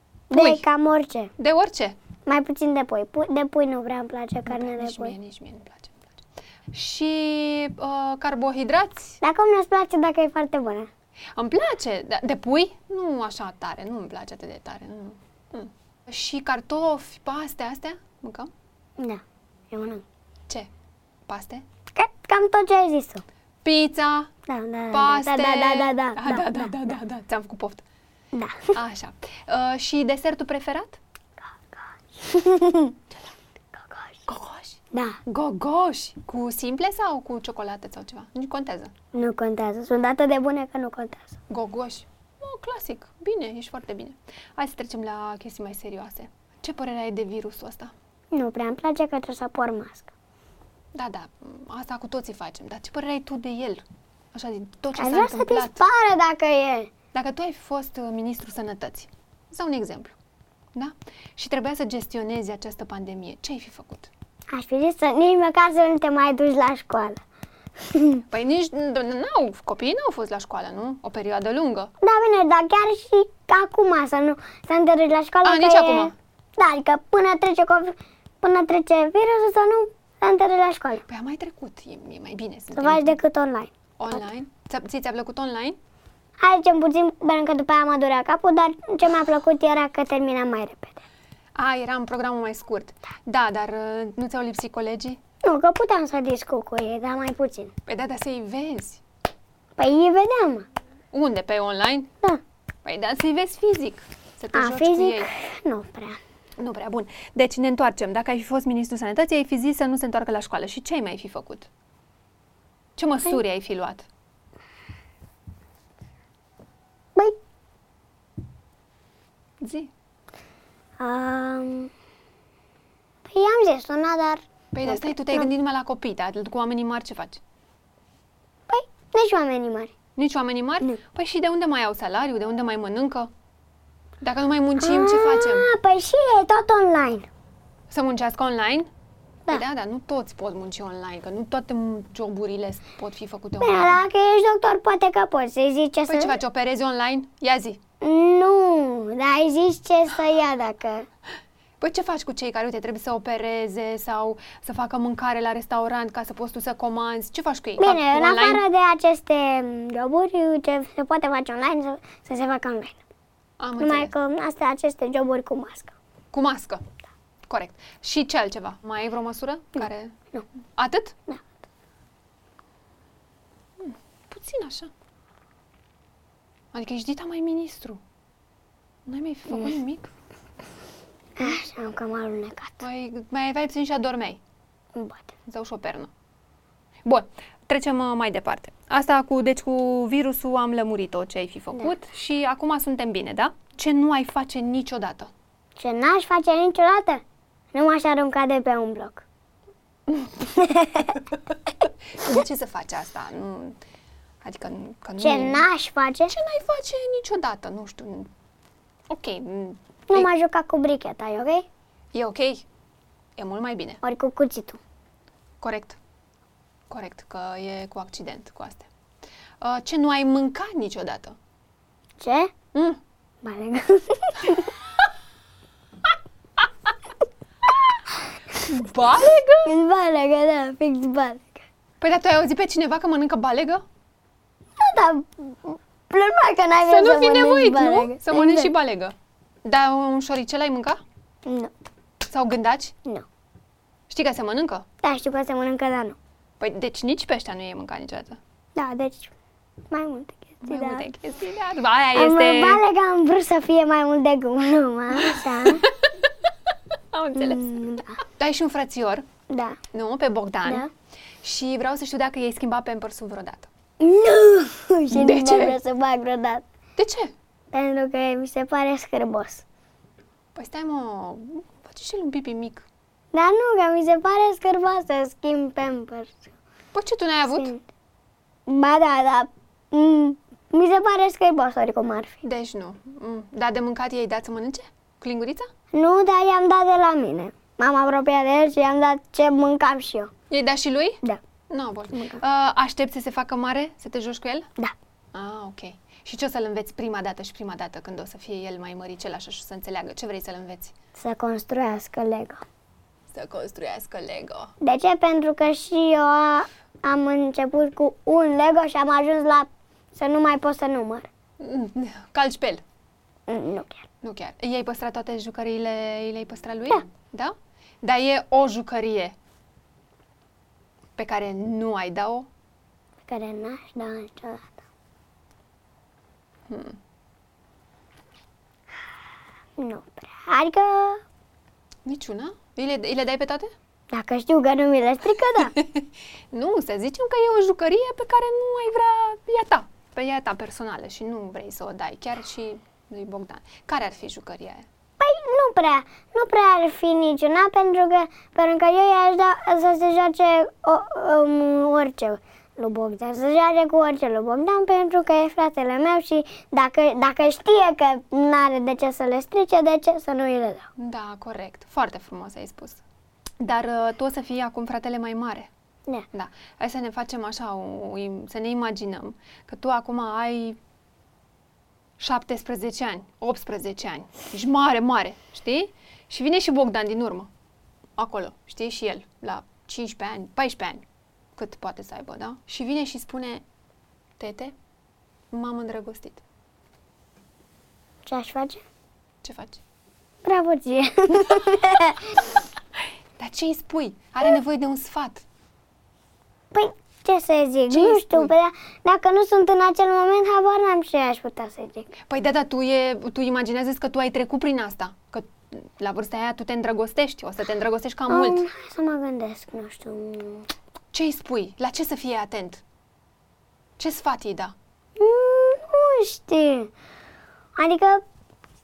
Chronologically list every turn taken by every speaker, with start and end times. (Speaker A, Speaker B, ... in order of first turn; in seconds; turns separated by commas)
Speaker A: 0.3-1.3, Speaker B: 0.3-0.6, Speaker B: 1.4-1.9, Speaker A: 2.2-5.1, Speaker B: 4.5-9.2, Speaker A: 9.2-10.9, Speaker B: 11.3-18.5, Speaker A: 19.0-20.0, Speaker B: 21.3-21.6, Speaker A: 21.9-23.2, Speaker B: 23.6-24.3, Speaker A: 24.5-26.7, Speaker B: 24.9-27.8, Speaker A: 28.3-28.8, Speaker B: 28.7-31.0, Speaker A: 31.4-33.0, Speaker A: 33.7-34.2, Speaker B: 34.2-38.9, Speaker A: 34.9-35.2, Speaker A: 39.1-41.4, Speaker B: 41.5-47.9, Speaker A: 48.3-50.1, Speaker B: 50.9-55.8, Speaker A: 54.9-56.9, Speaker B: 57.1-60.1, Speaker B: 60.7-64.1, Speaker A: 64.5-67.2, Speaker A: 67.8-68.2, Speaker B: 68.3-71.9, Speaker A: 72.0-81.0, Speaker B: 75.4-76.1, Speaker B: 81.1-83.2, Speaker A: 82.7-84.2, Speaker B: 84.0-85.8, Speaker A: 86.4-91.0, Speaker B: 91.5-95.2, Speaker A: 95.4-97.7, Speaker B: 97.8-99.0, Speaker A: 99.8-100.7, Speaker B: 101.1-102.1, Speaker B: 102.8-105.3, Speaker A: 104.5-106.2, Speaker B: 106.6-111.7, Speaker B: 113.0-114.1, Speaker B: 119.6-119.9, Speaker A: 121.0-121.9, Speaker A: 123.2-125.5, Speaker B: 124.7-127.4, Speaker A: 128.7-129.9, Speaker B: 130.2-133.3, Speaker B: 134.2-135.7, Speaker A: 134.8-137.3, Speaker B: 137.9-138.9, Speaker B: 139.5-144.0, Speaker A: 143.6-146.4, Speaker B: 146.1-147.8, Speaker A: 148.0-151.1, Speaker B: 151.8-158.6, Speaker A: 157.8-163.0, Speaker B: 163.6-164.1, Speaker A: 163.8-165.9, Speaker B: 166.3-166.8, Speaker B: 167.5-170.2, Speaker B: 170.8-171.2, Speaker B: 173.8-174.9, Speaker B: 176.7-178.0, Speaker B: 179.1-180.1, Speaker A: 181.4-182.8, Speaker B: 182.8-184.4, Speaker A: 184.9-185.3, Speaker B: 185.4-186.1, Speaker B: 187.0-195.3, Speaker A: 195.8-199.2, Speaker B: 200.1-200.4, Speaker A: 200.4-201.2, Speaker B: 201.8-203.8, Speaker B: 204.4-205.7, Speaker A: 205.2-206.3, Speaker B: 206.3-208.3, Speaker B: 209.1-210.3, Speaker A: 210.1-211.7, Speaker B: 212.1-212.7, Speaker B: 213.4-214.0, Speaker A: 214.0-214.8, Speaker B: 215.6-216.0, Speaker B: 216.9-218.9, Speaker B: 219.6-221.3, Speaker A: 222.2-222.5, Speaker B: 222.7-223.0, Speaker A: 223.4-224.7, Speaker B: 227.7-228.0, Speaker B: 228.5-229.7, Speaker A: 229.6-231.6, Speaker B: 232.0-233.8, Speaker A: 234.8-238.7, Speaker B: 236.8-239.1, Speaker B: 239.6-241.0, Speaker A: 241.4-241.7, Speaker B: 242.2-242.9, Speaker B: 244.1-244.8, Speaker A: 245.0-246.2, Speaker B: 246.6-248.4, Speaker A: 248.7-249.3, Speaker A: 249.9-251.1, Speaker B: 250.6-252.8, Speaker A: 252.1-255.9, Speaker B: 255.2-256.2, Speaker B: 257.1-257.8, Speaker A: 257.3-258.2, Speaker B: 258.3-259.2, Speaker A: 259.5-259.8, Speaker B: 259.9-260.9, Speaker A: 260.6-260.9, Speaker B: 261.4-263.7, Speaker A: 264.0-266.6, Speaker B: 265.1-265.8, Speaker B: 267.0-267.3, Speaker A: 267.7-269.6, Speaker B: 270.5-272.9, Speaker A: 273.3-276.5, Speaker B: 276.9-277.7, Speaker A: 277.4-277.8, Speaker A: 278.6-282.4, Speaker B: 282.4-285.7, Speaker A: 285.9-290.3, Speaker B: 290.5-294.7, Speaker A: 292.1-292.4, Speaker B: 295.3-300.9, Speaker A: 301.1-302.6, Speaker B: 303.3-304.7, Speaker A: 304.8-311.3, Speaker B: 311.6-312.8, Speaker A: 313.5-314.0, Speaker B: 314.2-319.3, Speaker B: 321.2-322.5, Speaker A: 323.2-324.8, Speaker B: 326.7-327.0, Speaker A: 329.8-331.2, Speaker B: 332.1-333.7, Speaker A: 334.1-335.7, Speaker B: 335.5-344.9, Speaker A: 345.2-360.9, Speaker B: 361.0-363.0, Speaker B: 363.6-365.7, Speaker B: 366.3-370.8, Speaker B: 372.2-377.5, Speaker B: 378.2-381.0, Speaker B: 381.6-383.6, Speaker B: 384.4-384.7, Speaker B: 385.5-386.4, Speaker A: 388.2-388.8, Speaker B: 389.4-389.8, Speaker A: 390.4-392.6, Speaker B: 393.4-395.4, Speaker A: 396.7-402.1, Speaker B: 397.9-398.5, Speaker B: 402.2-408.6, Speaker A: 408.3-410.7, Speaker B: 411.1-412.8, Speaker B: 414.0-414.7, Speaker A: 415.2-416.9, Speaker A: 417.8-418.2